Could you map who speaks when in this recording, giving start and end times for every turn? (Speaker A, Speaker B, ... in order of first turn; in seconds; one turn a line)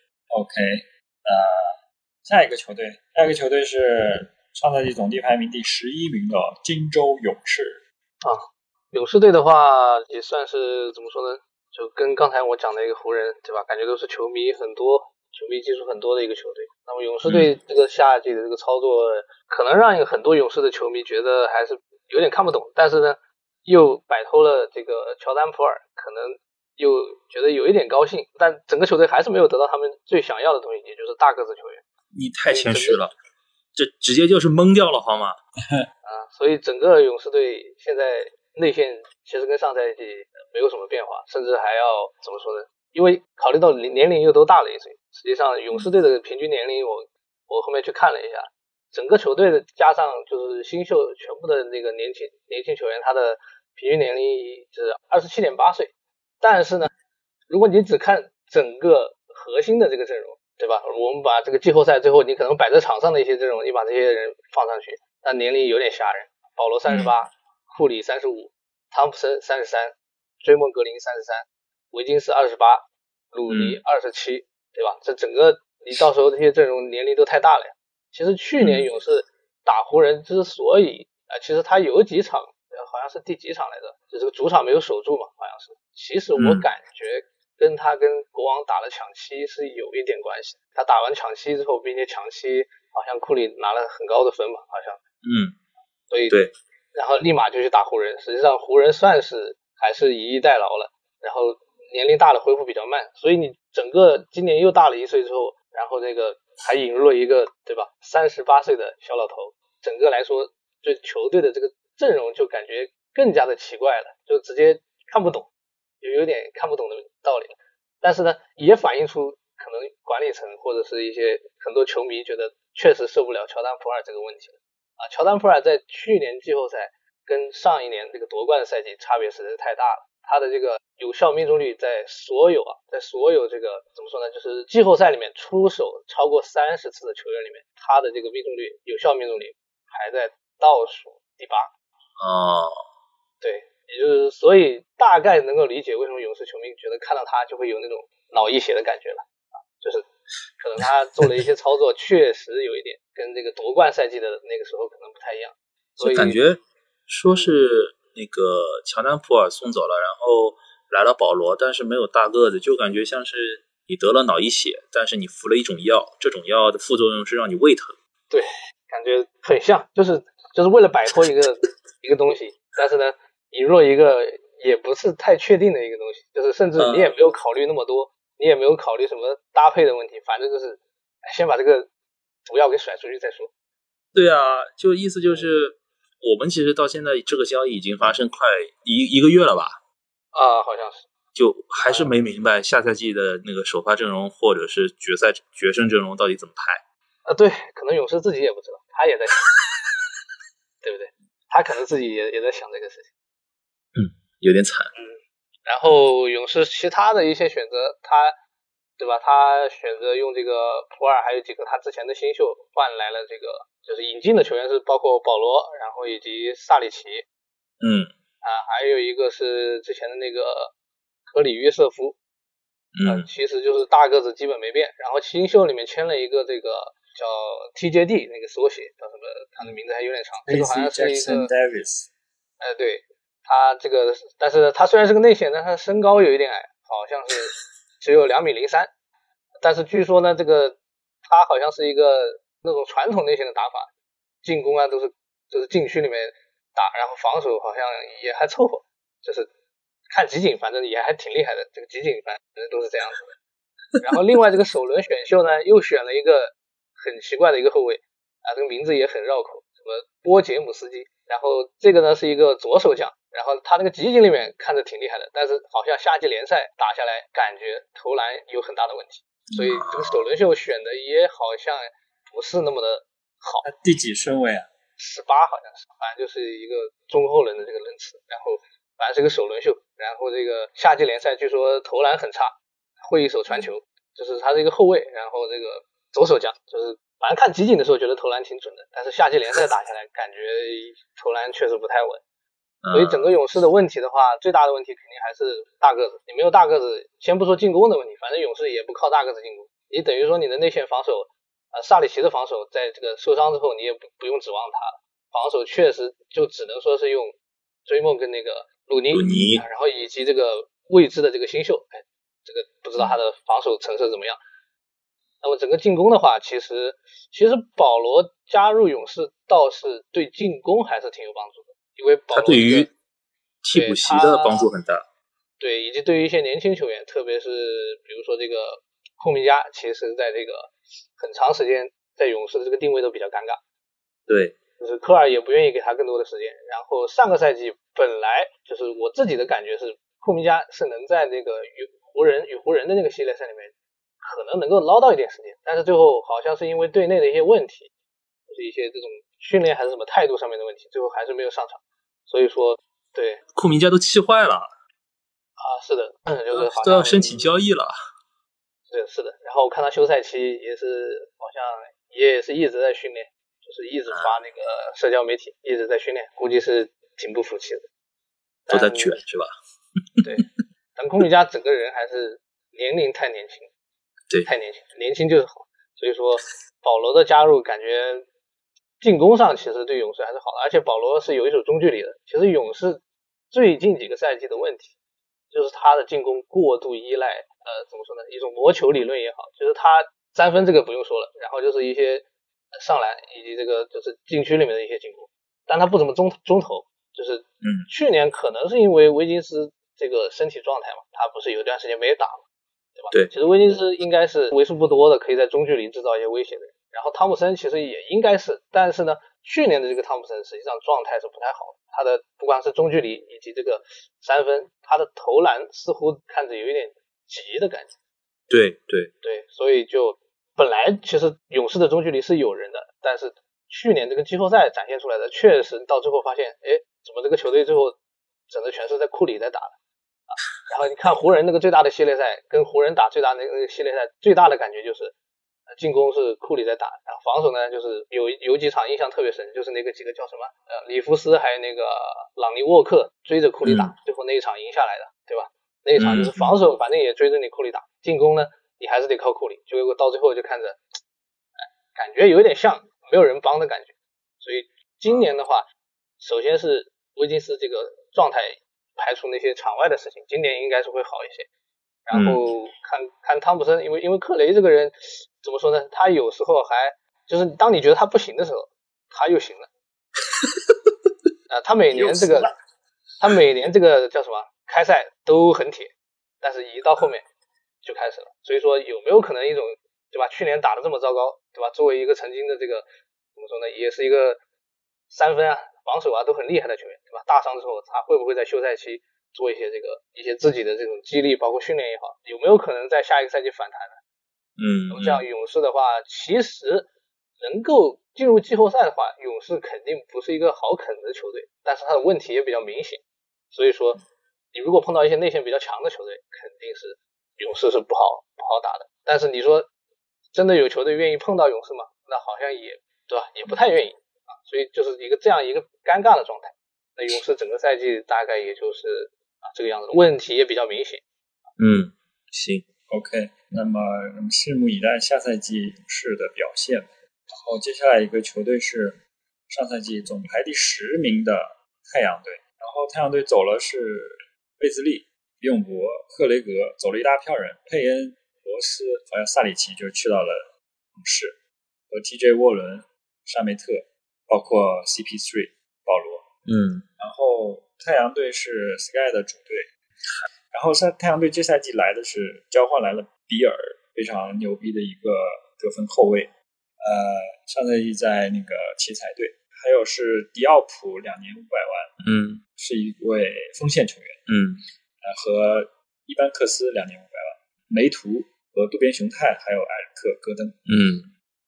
Speaker A: 0.3-7.8
Speaker B: 8.2-31.8
Speaker C: 17.3-17.5
Speaker C: 32.1-33.1
Speaker B: 32.5-33.0
Speaker C: 33.7-35.4
Speaker B: 36.0-56.9
Speaker B: 57.5-95.0
Speaker C: 66.9-67.1
Speaker C: 73.5-73.8
Speaker C: 78.6-78.9
Speaker C: 86.4-86.7
Speaker C: 95.2-95.5
Speaker B: 96.1-96.4
Speaker B: 96.9-115.5
Speaker B: 116.0-141.7
Speaker C: 142.2-142.8
Speaker B: 143.4-150.1
Speaker B: 150.6-156.4
Speaker C: 156.0-167.9
Speaker B: 168.3-181.9
Speaker C: 176.8-177.1
Speaker B: 182.4-183.5
Speaker C: 184.1-189.8
Speaker B: 190.3-191.1
Speaker C: 191.3-196.8
Speaker B: 191.7-192.1
Speaker B: 197.2-199.5
Speaker B: 200.8-203.1
Speaker C: 203.9-204.9
Speaker B: 205.7-208.3
Speaker B: 209.0-217.2
Speaker C: 217.8-218.1
Speaker B: 218.4-220.7
Speaker B: 221.3-222.2
Speaker C: 222.9-223.3
Speaker B: 223.0-231.5
Speaker A: 230.5-232.1
Speaker B: 232.6-238.9
Speaker B: 239.6-243.9
Speaker B: 244.4-249.5
Speaker B: 250.1-253.3
Speaker B: 254.0-273.6
Speaker C: 269.5-270.2
Speaker A: 273.6-274.7
Speaker B: 275.0-292.2
Speaker C: 292.8-293.3
Speaker B: 292.9-314.4
Speaker C: 309.1-309.6
Speaker B: 315.4-322.9
Speaker C: 322.3-322.9
Speaker C: 323.6-325.1
Speaker B: 323.7-324.6
Speaker B: 325.6-333.6
Speaker C: 334.3-334.6
Speaker B: 334.8-347.9
Speaker B: 348.5-353.4
Speaker C: 353.5-354.7
Speaker B: 355.6-357.5
Speaker C: 356.5-357.9
Speaker B: 358.9-367.9
Speaker B: 368.7-369.2
Speaker C: 368.7-369.5
Speaker C: 370.2-370.5
Speaker B: 370.2-373.7
Speaker B: 374.4-378.2
Speaker B: 379.0-384.9
Speaker B: 385.5-402.4
Speaker C: 397.6-397.9
Speaker B: 403.0-417.9
Speaker C: 418.5-419.1
Speaker B: 419.2-428.0
Speaker B: 428.5-429.7
Speaker B: 430.3-435.1
Speaker B: 435.7-450.8
Speaker C: 443.6-443.9
Speaker C: 446.0-446.5
Speaker B: 451.9-455.6
Speaker B: 456.2-461.5
Speaker B: 462.1-469.7
Speaker C: 462.1-462.4
Speaker B: 471.5-472.5
Speaker B: 473.2-477.2
Speaker B: 477.8-484.4
Speaker B: 485.1-494.0
Speaker C: 494.6-495.2
Speaker B: 494.9-496.9
Speaker B: 497.4-504.0
Speaker B: 504.5-509.7
Speaker B: 510.3-521.0
Speaker C: 521.6-522.6
Speaker A: 522.9-541.4
Speaker A: 541.9-546.3
Speaker C: 546.5-546.9
Speaker A: 547.0-549.7
Speaker A: 550.5-561.9
Speaker C: 562.0-562.4
Speaker A: 562.6-564.2
Speaker C: 564.3-564.6
Speaker A: 565.0-570.6
Speaker C: 570.7-571.1